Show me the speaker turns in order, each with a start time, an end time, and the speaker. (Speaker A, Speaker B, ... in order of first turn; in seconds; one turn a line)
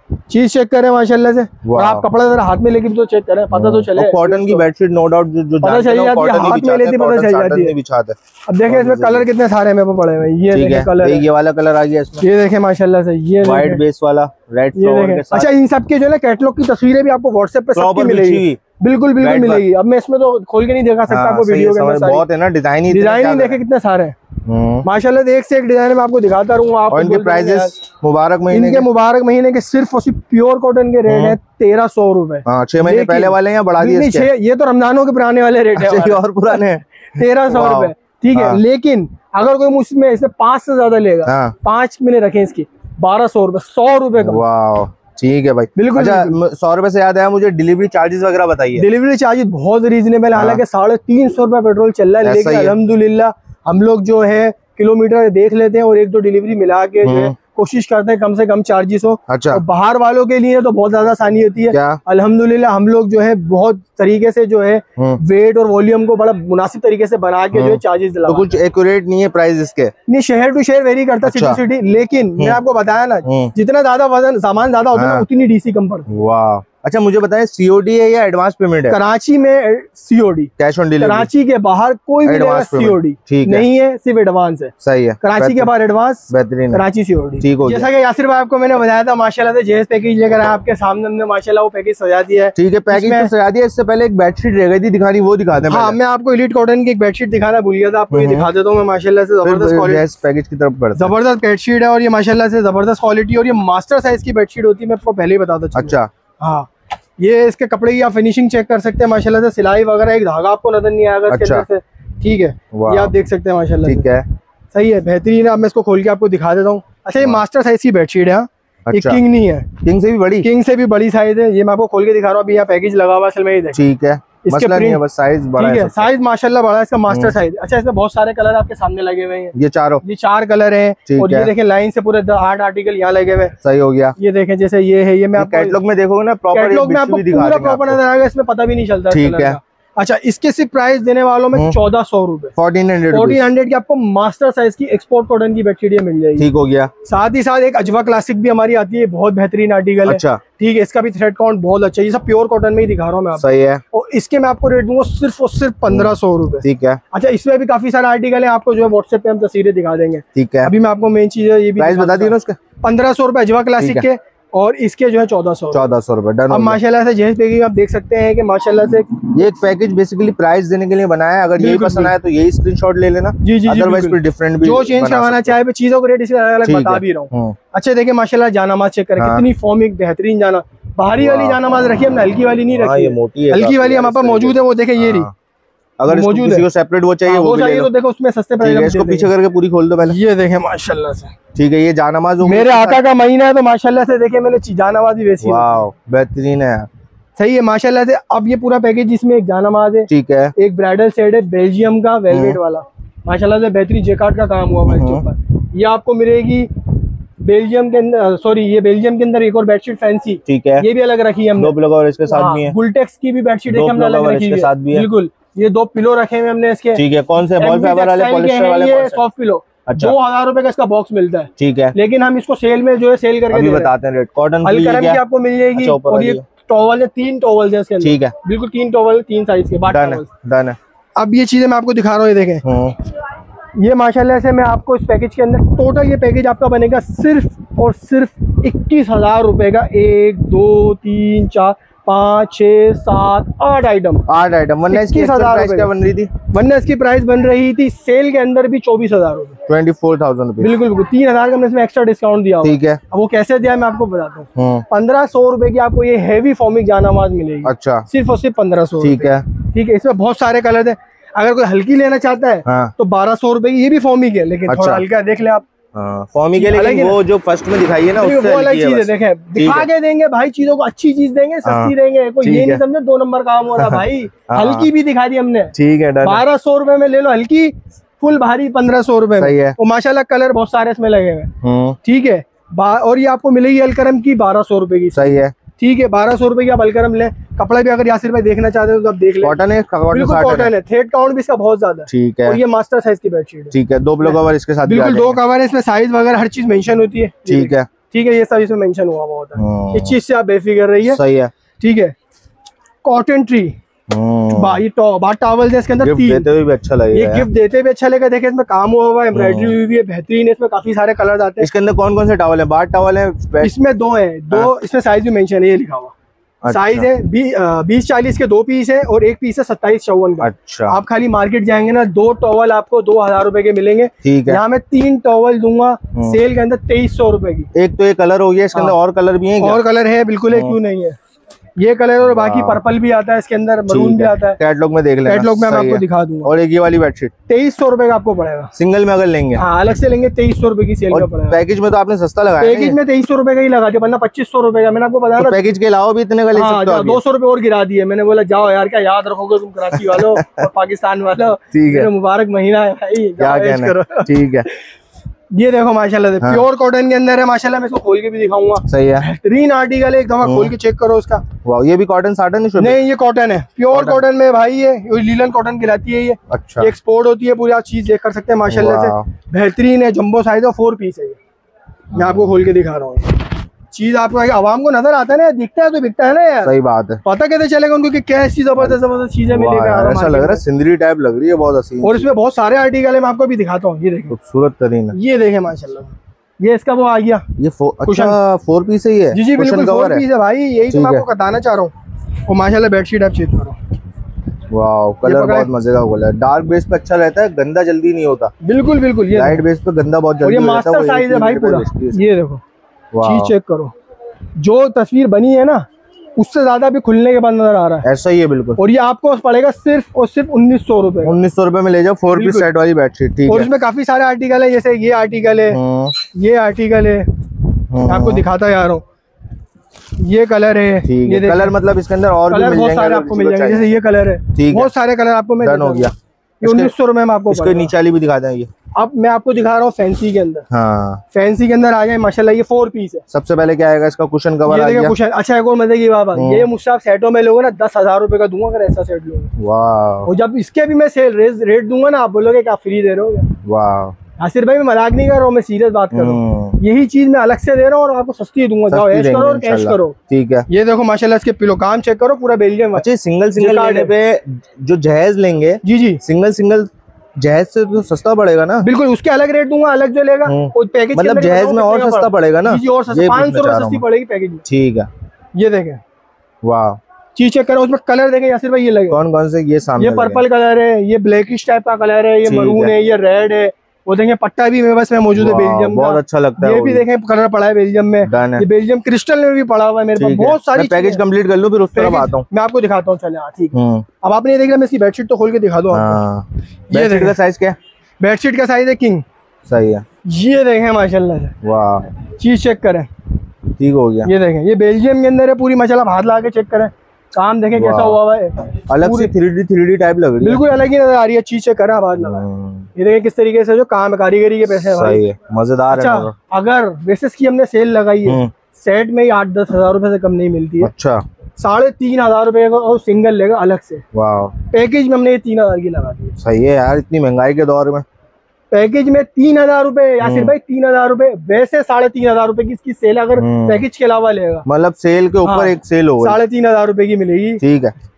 Speaker A: 0.3-4.7
Speaker B: 1.6-2.1
Speaker B: 3.5-9.3
Speaker A: 5.6-7.8
Speaker A: 8.5-11.2
Speaker B: 10.5-12.3
Speaker A: 12.2-13.8
Speaker B: 13.4-15.5
Speaker A: 14.8-22.2
Speaker B: 17.8-18.6
Speaker B: 19.2-19.6
Speaker B: 21.1-23.6
Speaker A: 22.9-24.2
Speaker B: 24.4-24.9
Speaker A: 24.8-27.7
Speaker B: 26.9-28.9
Speaker A: 28.5-44.4
Speaker B: 31.1-31.4
Speaker B: 32.5-34.3
Speaker B: 35.8-38.6
Speaker B: 41.3-41.5
Speaker B: 44.2-48.9
Speaker A: 45.8-46.4
Speaker A: 48.8-68.5
Speaker B: 50.4-50.6
Speaker B: 52.2-52.8
Speaker B: 57.0-57.4
Speaker B: 59.3-59.6
Speaker B: 61.7-62.0
Speaker B: 67.5-69.9
Speaker A: 70.1-76.1
Speaker B: 71.2-71.6
Speaker B: 73.2-73.5
Speaker B: 74.9-75.2
Speaker B: 76.1-79.0
Speaker A: 78.9-93.3
Speaker B: 80.6-81.3
Speaker B: 82.2-83.7
Speaker B: 84.8-85.7
Speaker B: 86.3-86.8
Speaker B: 87.4-87.9
Speaker B: 92.6-96.0
Speaker A: 95.7-100.0
Speaker B: 98.1-98.5
Speaker B: 99.4-101.1
Speaker A: 101.0-106.7
Speaker B: 105.8-106.1
Speaker A: 107.2-114.1
Speaker B: 111.3-111.7
Speaker B: 112.7-113.1
Speaker B: 113.8-114.2
Speaker A: 114.7-119.8
Speaker B: 118.9-119.2
Speaker B: 119.8-120.5
Speaker A: 120.4-123.8
Speaker B: 123.7-126.1
Speaker A: 124.4-125.0
Speaker A: 125.6-133.6
Speaker B: 127.1-127.3
Speaker B: 129.6-130.0
Speaker B: 131.1-131.5
Speaker B: 133.6-134.2
Speaker A: 134.2-135.8
Speaker B: 135.4-138.0
Speaker A: 136.5-142.5
Speaker B: 139.1-139.6
Speaker B: 141.5-141.8
Speaker B: 142.6-143.5
Speaker A: 143.1-146.5
Speaker B: 146.4-146.9
Speaker A: 147.1-165.9
Speaker B: 150.1-150.4
Speaker B: 153.4-153.8
Speaker B: 155.9-157.0
Speaker B: 160.3-160.7
Speaker B: 161.8-162.6
Speaker B: 163.8-164.1
Speaker B: 165.7-166.8
Speaker A: 166.5-169.3
Speaker B: 169.3-175.6
Speaker A: 171.6-172.1
Speaker A: 173.4-185.3
Speaker B: 176.6-177.6
Speaker B: 179.2-179.5
Speaker B: 181.2-181.6
Speaker B: 182.7-185.3
Speaker B: 186.0-187.9
Speaker A: 186.1-186.7
Speaker A: 187.3-189.3
Speaker B: 188.6-190.2
Speaker A: 190.1-191.3
Speaker B: 191.6-193.0
Speaker A: 192.4-195.8
Speaker B: 195.4-196.9
Speaker A: 197.4-206.7
Speaker B: 200.1-200.5
Speaker B: 202.3-202.6
Speaker B: 204.8-205.2
Speaker A: 207.4-211.7
Speaker B: 210.5-210.9
Speaker B: 211.6-212.8
Speaker A: 212.3-217.1
Speaker B: 213.7-215.1
Speaker B: 216.9-219.2
Speaker A: 217.6-223.9
Speaker B: 219.9-220.2
Speaker B: 221.6-221.9
Speaker B: 223.5-225.2
Speaker A: 224.6-230.3
Speaker B: 225.7-226.4
Speaker B: 228.0-228.3
Speaker B: 229.9-230.8
Speaker A: 231.2-232.7
Speaker B: 232.6-233.0
Speaker A: 233.8-244.3
Speaker B: 244.3-246.3
Speaker A: 244.9-245.9
Speaker A: 246.5-249.6
Speaker B: 249.7-250.8
Speaker A: 250.6-265.6
Speaker B: 252.6-253.0
Speaker B: 254.6-254.8
Speaker B: 257.6-258.1
Speaker B: 259.0-259.4
Speaker B: 262.7-262.9
Speaker B: 264.7-265.0
Speaker B: 265.9-269.9
Speaker A: 266.6-267.2
Speaker A: 268.2-281.5
Speaker B: 271.6-272.8
Speaker B: 273.8-274.9
Speaker B: 275.7-276.4
Speaker B: 279.4-279.8
Speaker B: 281.6-282.0
Speaker A: 282.0-289.6
Speaker B: 285.1-285.5
Speaker B: 289.4-290.7
Speaker A: 290.1-301.2
Speaker B: 292.1-292.6
Speaker B: 293.7-295.4
Speaker B: 297.5-297.9
Speaker B: 299.6-300.1
Speaker B: 301.1-301.5
Speaker A: 301.8-302.1
Speaker A: 303.0-303.8
Speaker B: 304.1-304.8
Speaker A: 304.5-306.5
Speaker B: 306.0-307.5
Speaker A: 307.1-311.7
Speaker B: 309.3-309.8
Speaker B: 311.6-313.7
Speaker A: 313.6-316.1
Speaker B: 316.6-317.1
Speaker A: 316.7-327.7
Speaker B: 320.4-321.0
Speaker B: 324.2-324.6
Speaker B: 327.7-329.8
Speaker A: 329.6-331.2
Speaker A: 331.8-334.6
Speaker B: 332.2-332.8
Speaker B: 333.9-337.3
Speaker A: 335.3-336.5
Speaker A: 337.5-338.7
Speaker B: 338.8-339.6
Speaker A: 339.6-341.6
Speaker B: 341.1-343.0
Speaker A: 342.6-345.6
Speaker B: 345.4-347.2
Speaker A: 346.5-354.3
Speaker B: 349.9-350.7
Speaker B: 351.7-352.1
Speaker B: 353.4-354.7
Speaker A: 355.5-361.5
Speaker B: 358.8-359.3
Speaker B: 360.4-360.7
Speaker B: 361.6-363.0
Speaker A: 362.8-371.4
Speaker B: 363.9-364.2
Speaker B: 366.5-366.9
Speaker B: 368.7-369.3
Speaker A: 372.1-380.6
Speaker B: 372.2-372.5
Speaker B: 376.6-377.2
Speaker B: 378.8-382.3
Speaker A: 382.0-384.4
Speaker B: 384.3-385.2
Speaker A: 385.1-387.4
Speaker B: 387.6-390.2
Speaker A: 388.0-388.4
Speaker A: 389.3-391.9
Speaker B: 390.9-391.3
Speaker A: 392.5-393.8
Speaker B: 394.7-398.5
Speaker A: 395.2-395.7
Speaker A: 398.6-399.6
Speaker B: 399.3-402.2
Speaker A: 400.4-402.6
Speaker B: 403.1-403.5
Speaker A: 403.2-403.9
Speaker A: 404.6-405.9
Speaker A: 406.4-408.1
Speaker B: 408.0-408.8
Speaker A: 408.8-411.4
Speaker B: 411.2-413.7
Speaker A: 412.3-412.7
Speaker A: 413.5-417.3
Speaker B: 415.7-416.1
Speaker B: 417.9-418.5
Speaker A: 418.0-419.0
Speaker A: 420.2-421.8
Speaker B: 421.1-423.9
Speaker A: 422.5-427.9
Speaker B: 424.6-424.9
Speaker B: 425.6-426.1
Speaker B: 426.6-426.9
Speaker B: 427.5-428.7
Speaker A: 428.9-430.7
Speaker B: 430.7-431.2
Speaker A: 431.3-433.2
Speaker B: 433.3-435.1
Speaker A: 434.7-439.5
Speaker B: 436.4-436.7
Speaker B: 439.6-440.3
Speaker A: 440.3-443.5
Speaker B: 443.6-444.1
Speaker A: 444.4-450.2
Speaker B: 446.1-446.8
Speaker B: 448.9-450.7
Speaker A: 450.7-454.1
Speaker B: 453.0-458.9
Speaker A: 455.8-456.2
Speaker A: 458.8-464.7
Speaker B: 460.5-464.0
Speaker B: 464.7-465.1
Speaker A: 465.6-466.0
Speaker B: 466.6-467.0
Speaker A: 467.4-469.2
Speaker B: 469.1-470.4
Speaker A: 470.0-481.2
Speaker B: 472.4-472.9
Speaker B: 475.3-477.1
Speaker B: 478.2-478.6
Speaker B: 480.2-482.4
Speaker A: 481.9-486.2
Speaker B: 483.7-484.1
Speaker B: 485.9-487.8
Speaker A: 486.9-487.4
Speaker A: 488.2-489.2
Speaker B: 489.7-490.1
Speaker A: 490.2-491.6
Speaker B: 491.6-492.1
Speaker A: 492.4-493.1
Speaker B: 493.8-494.3
Speaker A: 494.2-499.3
Speaker B: 497.8-498.2
Speaker B: 498.9-500.6
Speaker A: 500.4-502.4
Speaker B: 502.2-502.9
Speaker A: 503.0-505.2
Speaker B: 504.7-506.3
Speaker A: 505.9-510.9
Speaker B: 508.2-508.5
Speaker B: 510.8-511.2
Speaker A: 511.6-514.0
Speaker B: 514.1-514.5
Speaker A: 514.7-516.4
Speaker B: 516.4-518.0
Speaker A: 518.7-524.7
Speaker B: 520.2-520.5
Speaker B: 523.4-523.9
Speaker B: 524.7-526.4
Speaker A: 525.4-527.6
Speaker B: 527.6-527.9